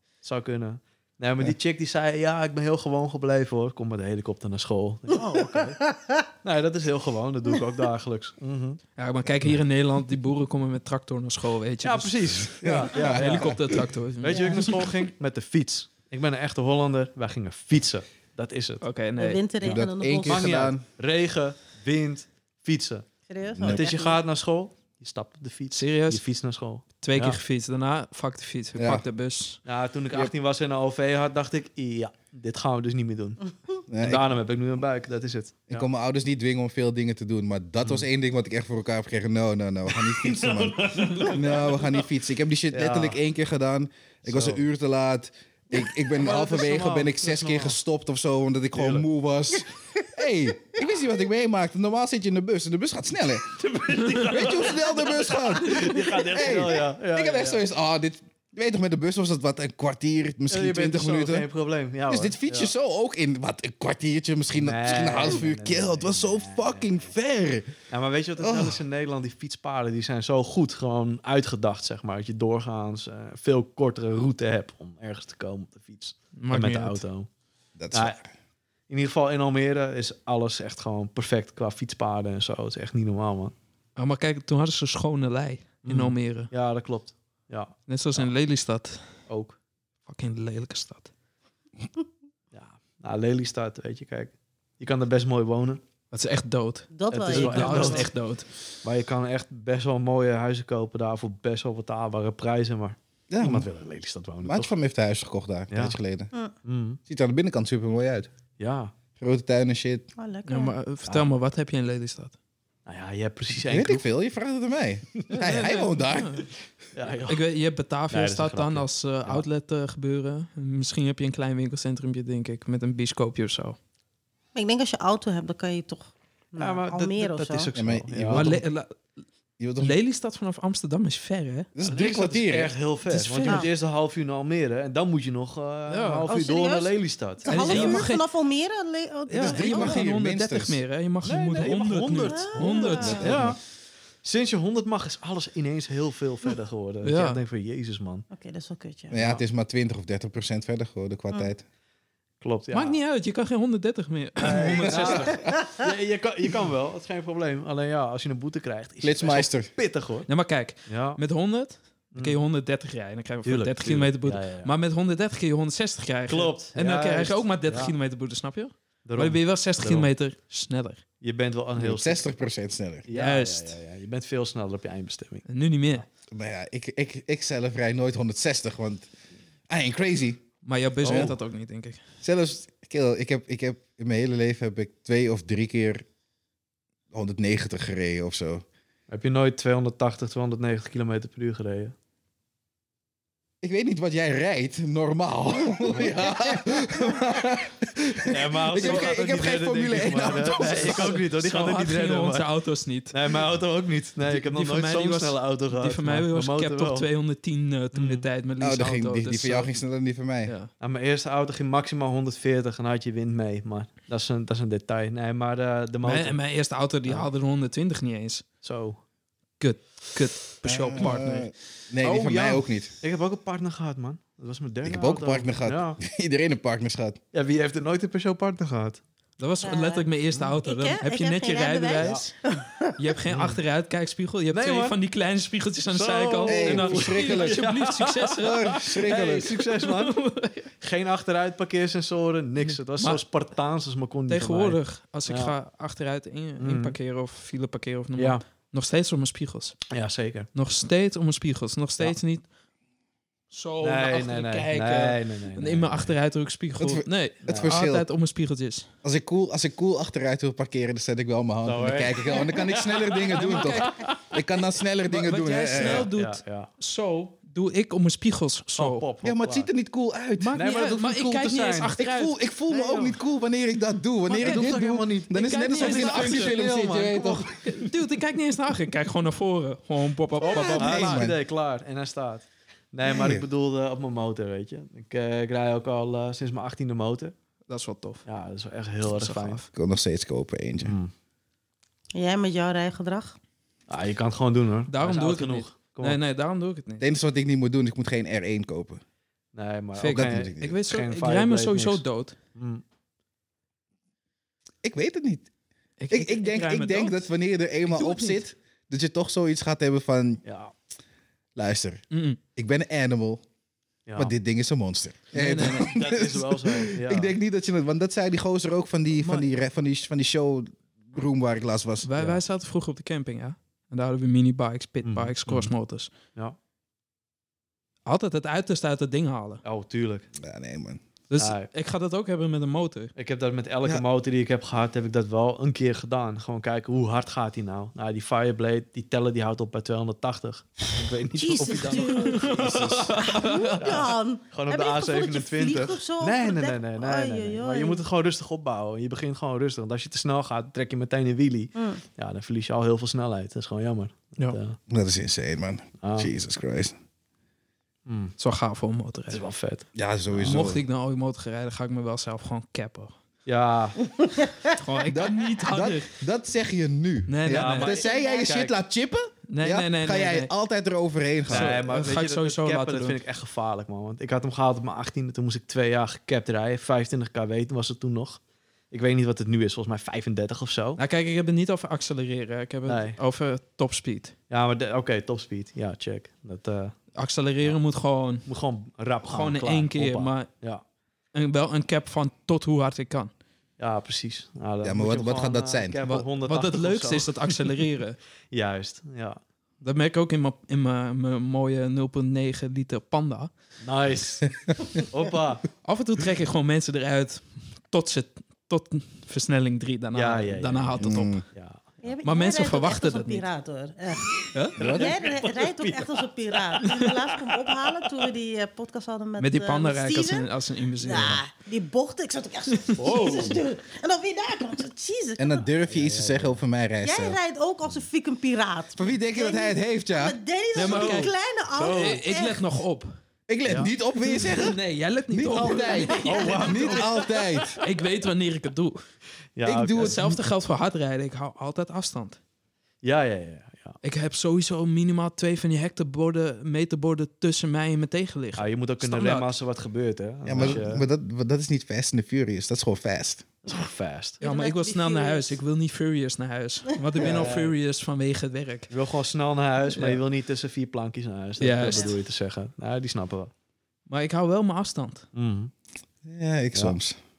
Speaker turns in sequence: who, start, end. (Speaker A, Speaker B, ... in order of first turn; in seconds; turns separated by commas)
Speaker A: 0.2-5.8, Speaker B: 5.3-6.3, Speaker A: 6.4-8.8, Speaker C: 9.0-14.9, Speaker A: 11.8-18.8, Speaker D: 12.6-13.8, Speaker B: 14.3-14.6, Speaker C: 18.8-19.4, Speaker B: 19.2-20.5, Speaker D: 19.6-20.8, Speaker A: 20.2-23.1, Speaker B: 23.3-24.2, Speaker D: 23.5-23.9, Speaker A: 23.6-27.4, Speaker C: 25.7-26.2, Speaker C: 27.0-29.6, Speaker D: 28.8-29.0, Speaker A: 29.6-35.9, Speaker D: 33.9-34.3, Speaker D: 35.7-53.5, Speaker A: 39.9-42.0, Speaker A: 42.7-43.2, Speaker A: 44.2-44.6, Speaker A: 46.1-47.8, Speaker A: 48.7-49.1, Speaker A: 53.5-57.6, Speaker C: 54.0-54.4, Speaker D: 54.2-61.5, Speaker A: 60.5-62.7, Speaker D: 62.1-67.7, Speaker A: 64.5-67.0, Speaker A: 67.9-77.3, Speaker D: 68.4-68.8, Speaker C: 76.3-77.0, Speaker D: 77.8-78.3, Speaker A: 77.9-78.2, Speaker A: 78.9-83.5, Speaker C: 84.0-86.5, Speaker A: 85.8-88.3, Speaker C: 87.9-89.0, Speaker A: 89.3-89.6, Speaker C: 90.1-91.1, Speaker A: 92.5-95.8, Speaker C: 96.1-98.5, Speaker B: 96.9-98.1, Speaker A: 97.1-98.1, Speaker A: 98.8-104.7, Speaker D: 103.3-103.7, Speaker D: 104.4-106.3, Speaker A: 105.7-106.0, Speaker A: 106.6-107.0, Speaker D: 107.1-108.3, Speaker A: 108.6-108.9, Speaker D: 109.2-110.1, Speaker B: 110.2-110.7, Speaker C: 110.5-112.3, Speaker A: 112.8-114.0, Speaker D: 113.6-116.5, Speaker C: 115.3-116.5, Speaker A: 116.9-117.4, Speaker C: 117.3-123.8, Speaker A: 118.1-119.4, Speaker B: 124.5-127.7, Speaker A: 126.6-128.6, Speaker D: 127.8-128.6, Speaker C: 128.3-128.9, Speaker D: 129.6-130.0, Speaker C: 129.8-131.7, Speaker D: 131.8-132.7, Speaker A: 131.8-138.1, Speaker C: 133.1-133.7, Speaker B: 133.4-133.7, Speaker C: 135.9-136.2, Speaker B: 136.3-140.0, Speaker C: 137.4-138.2, Speaker A: 139.3-139.6, Speaker C: 139.3-143.5, Speaker D: 139.4-140.8, Speaker A: 141.2-143.6, Speaker B: 142.2-143.3, Speaker D: 143.0-143.6, Speaker A: 144.2-148.2, Speaker C: 147.0-147.4, Speaker B: 148.3-149.2, Speaker D: 149.1-151.6, Speaker A: 149.1-149.4, Speaker A: 152.4-153.0, Speaker C: 152.7-155.4, Speaker A: 154.4-160.3, Speaker D: 154.7-155.6, Speaker D: 159.0-159.7, Speaker C: 160.3-171.0, Speaker A: 160.9-161.2, Speaker A: 162.1-162.4, Speaker A: 163.4-164.7, Speaker A: 166.3-167.9, Speaker A: 169.0-170.1, Speaker A: 171.2-172.3, Speaker D: 171.8-173.0, Speaker A: 173.1-175.4, Speaker C: 173.1-173.8, Speaker C: 175.5-176.0, Speaker D: 176.3-179.1, Speaker D: 179.7-180.4, Speaker C: 180.6-182.0, Speaker A: 181.0-181.3, Speaker D: 181.0-181.4, Speaker D: 182.2-186.0, Speaker D: 187.1-188.6, Speaker A: 189.1-191.9, Speaker D: 193.6-201.2, Speaker A: 198.3-202.4, Speaker C: 198.7-199.2, Speaker C: 200.0-203.4, Speaker A: 203.1-207.1, Speaker C: 204.3-209.7, Speaker A: 207.9-208.3, Speaker D: 208.6-210.5, Speaker C: 210.4-210.7, Speaker A: 210.8-216.4, Speaker C: 216.0-218.4, Speaker A: 218.6-219.0, Speaker C: 219.6-222.7, Speaker D: 220.6-222.9, Speaker A: 223.0-226.0, Speaker D: 224.8-227.2, Speaker A: 227.3-229.0, Speaker C: 229.4-232.3, Speaker B: 229.6-230.1, Speaker B: 230.6-233.0, Speaker A: 232.0-232.2, Speaker C: 233.0-240.7, Speaker A: 233.3-233.6, Speaker A: 234.5-235.0, Speaker A: 235.9-240.2, Speaker D: 236.4-237.6, Speaker D: 238.4-239.5, Speaker A: 240.8-245.5, Speaker C: 242.9-243.2, Speaker C: 244.3-249.8, Speaker A: 246.6-246.9, Speaker A: 248.2-248.4, Speaker A: 249.9-250.5, Speaker C: 250.5-252.4, Speaker C: 253.5-258.9, Speaker A: 253.8-256.1, Speaker D: 256.8-258.0, Speaker A: 257.5-257.8, Speaker D: 259.0-266.1, Speaker A: 261.6-264.0, Speaker C: 263.3-264.3, Speaker C: 265.1-269.1, Speaker A: 265.7-266.7, Speaker A: 268.8-269.7, Speaker D: 269.2-270.6, Speaker C: 270.4-272.3, Speaker A: 270.5-271.9, Speaker D: 272.0-277.8, Speaker A: 272.7-273.2, Speaker A: 274.3-277.5, Speaker C: 274.3-274.8, Speaker C: 275.3-276.6, Speaker C: 277.4-281.3, Speaker A: 280.4-287.3, Speaker D: 280.5-281.4, Speaker D: 283.1-283.4, Speaker C: 287.7-288.2, Speaker A: 288.2-289.6, Speaker C: 289.0-289.7, Speaker D: 289.7-291.0, Speaker A: 290.8-291.1, Speaker B: 292.1-293.4, Speaker A: 293.9-296.2, Speaker C: 294.9-297.0, Speaker D: 297.0-299.0, Speaker A: 299.5-302.0, Speaker C: 299.9-302.4, Speaker D: 300.1-300.8, Speaker A: 302.5-302.8, Speaker D: 304.8-305.5, Speaker C: 306.0-307.3, Speaker D: 306.1-310.4, Speaker C: 307.9-308.4, Speaker A: 310.4-310.7, Speaker D: 311.6-312.0, Speaker C: 312.1-312.4, Speaker D: 312.6-313.4, Speaker A: 314.1-314.3, Speaker D: 314.1-322.1, Speaker C: 315.3-316.0, Speaker A: 315.7-317.3, Speaker C: 319.2-319.5, Speaker C: 322.0-326.1, Speaker A: 325.0-325.7, Speaker C: 328.1-329.6, Speaker A: 329.6-330.3, Speaker D: 330.4-331.0, Speaker C: 331.3-333.1, Speaker A: 331.4-331.7, Speaker A: 333.1-343.3, Speaker B: 341.3-342.6, Speaker C: 341.6-344.0, Speaker D: 342.6-343.1, Speaker B: 343.1-348.0, Speaker A: 343.8-354.8, Speaker B: 351.7-352.0, Speaker D: 354.9-356.9, Speaker A: 356.0-356.3, Speaker A: 358.1-358.3, Speaker C: 358.4-359.4, Speaker A: 359.3-360.6, Speaker D: 359.9-360.8, Speaker C: 360.4-363.1, Speaker A: 363.4-364.1, Speaker B: 364.2-364.5, Speaker C: 364.7-366.1, Speaker D: 365.0-371.8, Speaker C: 367.3-368.0, Speaker A: 367.5-368.7, Speaker B: 368.0-368.5, Speaker C: 369.5-370.5, Speaker C: 371.5-373.2, Speaker A: 371.5-381.0, Speaker C: 381.0-384.3, Speaker A: 382.9-383.2, Speaker A: 384.5-387.0, Speaker C: 387.1-388.5, Speaker A: 388.4-390.8, Speaker C: 389.2-390.5, Speaker C: 391.3-393.3, Speaker A: 393.8-397.7, Speaker D: 394.8-396.0, Speaker C: 396.0-398.2, Speaker A: 398.5-399.4, Speaker C: 399.8-403.5, Speaker A: 403.8-405.6, Speaker C: 405.8-411.4, Speaker A: 410.1-412.0, Speaker D: 411.0-411.4, Speaker B: 412.0-425.6, Speaker C: 412.2-413.4, Speaker C: 414.5-414.8, Speaker A: 414.8-416.7, Speaker D: 414.8-415.2, Speaker C: 419.4-421.4, Speaker C: 422.8-423.4, Speaker A: 423.0-423.6, Speaker D: 425.4-427.4, Speaker A: 425.9-426.6, Speaker B: 427.0-432.6, Speaker D: 428.9-430.4, Speaker C: 430.7-433.1, Speaker A: 430.8-432.2, Speaker D: 433.5-437.8, Speaker C: 434.2-437.1, Speaker B: 435.9-436.7, Speaker A: 436.2-437.8, Speaker C: 437.8-439.0, Speaker A: 439.6-440.2, Speaker D: 439.6-440.4, Speaker C: 439.9-442.4, Speaker A: 443.0-444.0, Speaker C: 444.0-449.5, Speaker A: 448.6-451.0, Speaker D: 450.4-453.4, Speaker A: 453.6-454.4, Speaker B: 454.4-455.6, Speaker C: 454.4-458.9, Speaker A: 457.1-457.7, Speaker A: 458.9-463.5, Speaker C: 459.9-460.2, Speaker C: 461.6-462.2, Speaker C: 464.1-465.3, Speaker A: 465.3-465.7, Speaker D: 466.2-467.2